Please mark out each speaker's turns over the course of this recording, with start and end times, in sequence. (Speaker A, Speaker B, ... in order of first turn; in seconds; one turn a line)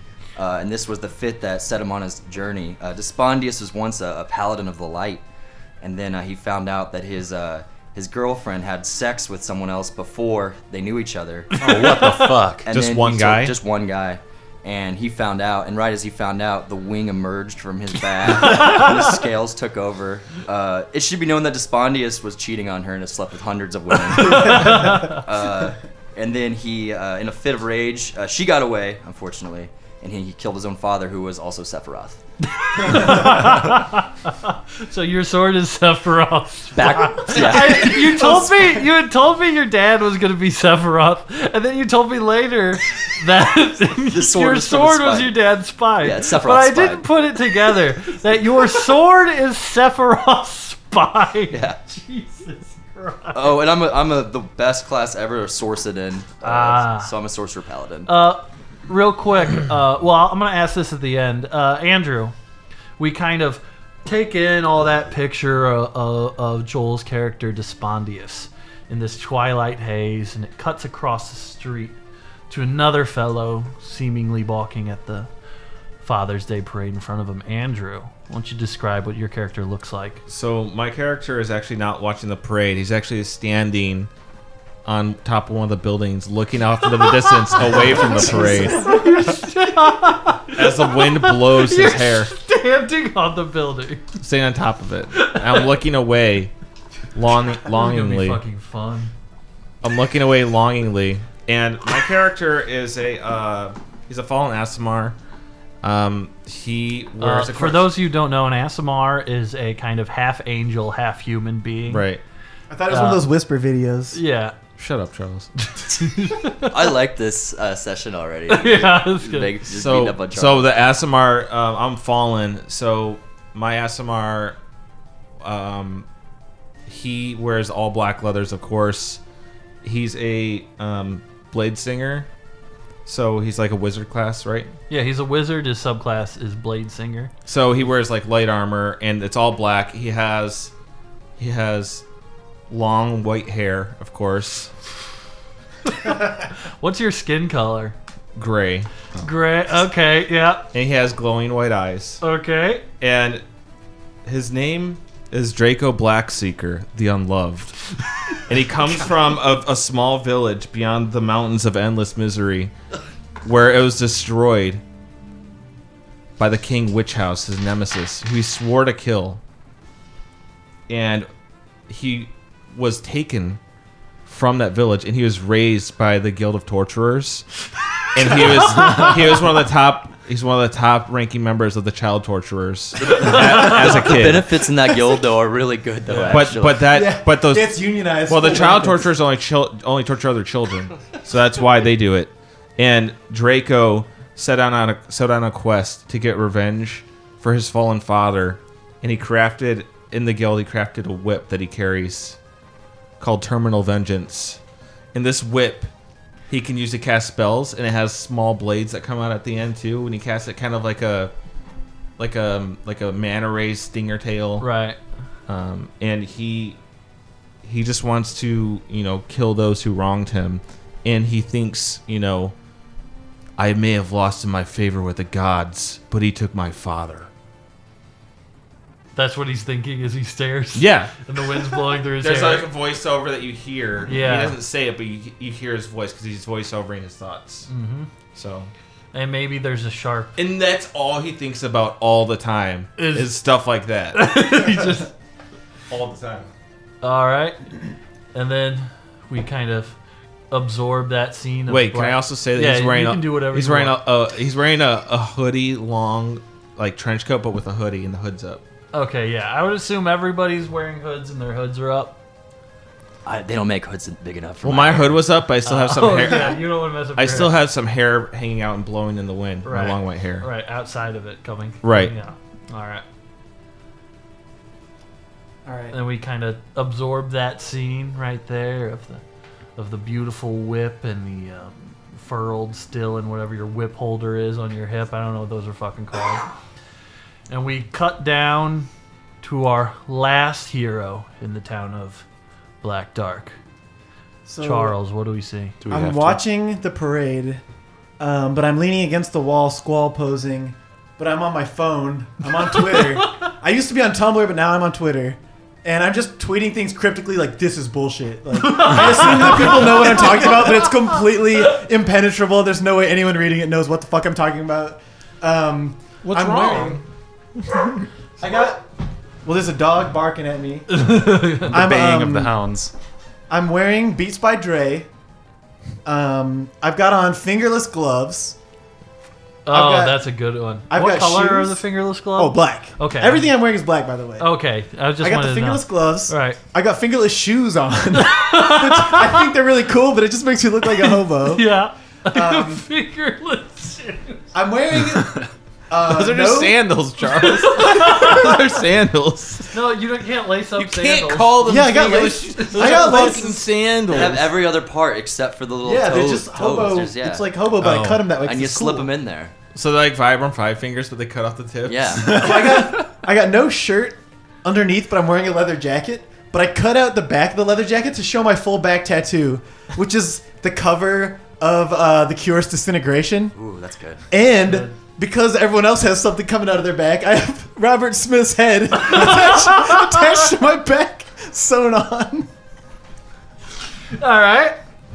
Speaker A: 0.4-5.2
Speaker A: 5.8-11.5
Speaker B: 11.5-12.3
Speaker C: 11.6-12.7
Speaker A: 12.6-32.2
Speaker D: 12.7-13.5
Speaker B: 18.5-18.9
Speaker B: 24.2-25.2
Speaker E: 24.2-25.1
Speaker B: 32.5-53.6
Speaker A: 36.8-38.1
Speaker E: 37.3-38.9
Speaker A: 44.0-45.3
Speaker A: 46.0-47.1
Speaker A: 51.5-51.8
Speaker A: 53.3-58.1
Speaker B: 56.4-57.1
Speaker B: 58.1-62.3
Speaker B: 63.0-72.0
Speaker B: 72.5-75.3
Speaker B: 76.0-80.2
Speaker D: 80.3-84.1
Speaker D: 84.8-88.9
Speaker B: 87.0-94.1
Speaker E: 87.7-89.7
Speaker D: 90.5-92.3
Speaker D: 94.2-96.5
Speaker B: 95.1-95.7
Speaker D: 97.1-98.4
Speaker B: 97.6-99.1
Speaker D: 99.8-105.2
Speaker D: 105.8-107.9
Speaker B: 107.2-112.1
Speaker D: 111.9-112.2
Speaker E: 112.7-114.2
Speaker B: 112.9-113.2
Speaker B: 114.1-114.5
Speaker D: 114.8-115.5
Speaker B: 115.8-116.8
Speaker A: 116.6-120.8
Speaker B: 118.5-119.5
Speaker D: 119.7-124.6
Speaker D: 125.4-126.1
Speaker D: 126.9-129.2
Speaker D: 129.8-132.3
Speaker D: 133.1-134.7
Speaker B: 134.9-137.3
Speaker D: 137.5-140.7
Speaker D: 141.4-142.0
Speaker D: 142.7-144.7
Speaker B: 145.8-147.9
Speaker D: 148.4-149.3
Speaker B: 149.2-150.7
Speaker D: 150.7-152.2
Speaker B: 152.2-152.9
Speaker D: 153.0-153.4
Speaker D: 154.2-157.8
Speaker D: 158.5-162.7
Speaker D: 163.4-164.8
Speaker D: 166.4-169.4
Speaker D: 170.9-171.3
Speaker D: 171.9-173.6
Speaker D: 174.2-177.4
Speaker D: 178.1-184.5
Speaker B: 178.7-179.1
Speaker A: 183.0-186.9
Speaker B: 183.2-183.9
Speaker D: 186.1-202.4
Speaker E: 186.9-189.1
Speaker D: 203.2-204.6
Speaker D: 205.1-205.9
Speaker D: 206.5-211.3
Speaker D: 212.2-214.7
Speaker B: 214.6-215.0
Speaker D: 215.5-216.8
Speaker D: 217.6-222.5
Speaker D: 223.6-227.3
Speaker B: 229.1-232.7
Speaker D: 230.8-231.2
Speaker D: 232.2-237.7
Speaker B: 234.1-234.6
Speaker B: 237.7-238.1
Speaker D: 238.3-238.7
Speaker B: 239.1-240.3
Speaker D: 240.4-244.4
Speaker B: 243.0-243.4
Speaker B: 244.1-245.1
Speaker D: 245.9-246.5
Speaker B: 247.0-247.7
Speaker B: 248.3-249.9
Speaker B: 250.5-254.0
Speaker D: 251.7-258.6
Speaker B: 258.9-262.2
Speaker A: 263.2-265.2
Speaker D: 264.6-270.5
Speaker B: 265.6-267.6
Speaker B: 269.6-273.0
Speaker D: 271.8-272.1
Speaker E: 275.6-275.9
Speaker B: 275.9-279.2
Speaker B: 279.8-286.5
Speaker B: 287.5-288.9
Speaker B: 289.4-292.2
Speaker B: 292.8-293.6
Speaker E: 294.4-294.9
Speaker B: 294.6-295.8
Speaker C: 295.8-296.4
Speaker E: 295.9-297.6
Speaker E: 298.2-317.0
Speaker B: 302.8-303.2
Speaker B: 308.6-311.2
Speaker D: 316.2-317.0
Speaker E: 318.4-318.8
Speaker E: 319.4-321.1
Speaker B: 320.9-321.8
Speaker E: 321.7-322.6
Speaker C: 321.7-322.9
Speaker E: 323.5-325.1
Speaker E: 326.1-328.6
Speaker B: 329.6-333.5
Speaker E: 329.7-330.2
Speaker E: 330.9-331.8
Speaker E: 332.4-334.5
Speaker B: 334.4-336.6
Speaker E: 335.2-341.7
Speaker B: 338.1-339.5
Speaker B: 340.9-344.5
Speaker E: 342.3-342.8
Speaker E: 344.5-346.9
Speaker D: 346.0-349.8
Speaker B: 347.4-348.8
Speaker B: 349.7-351.7
Speaker D: 350.8-354.5
Speaker E: 351.6-353.7
Speaker B: 352.5-353.5
Speaker A: 354.1-357.5
Speaker E: 355.9-359.1
Speaker D: 357.8-358.3
Speaker A: 358.3-359.5
Speaker D: 359.8-362.6
Speaker A: 361.9-362.8
Speaker E: 362.2-373.6
Speaker A: 373.6-374.2
Speaker E: 374.3-382.5
Speaker B: 374.6-374.9
Speaker B: 378.9-380.4
Speaker B: 384.1-384.8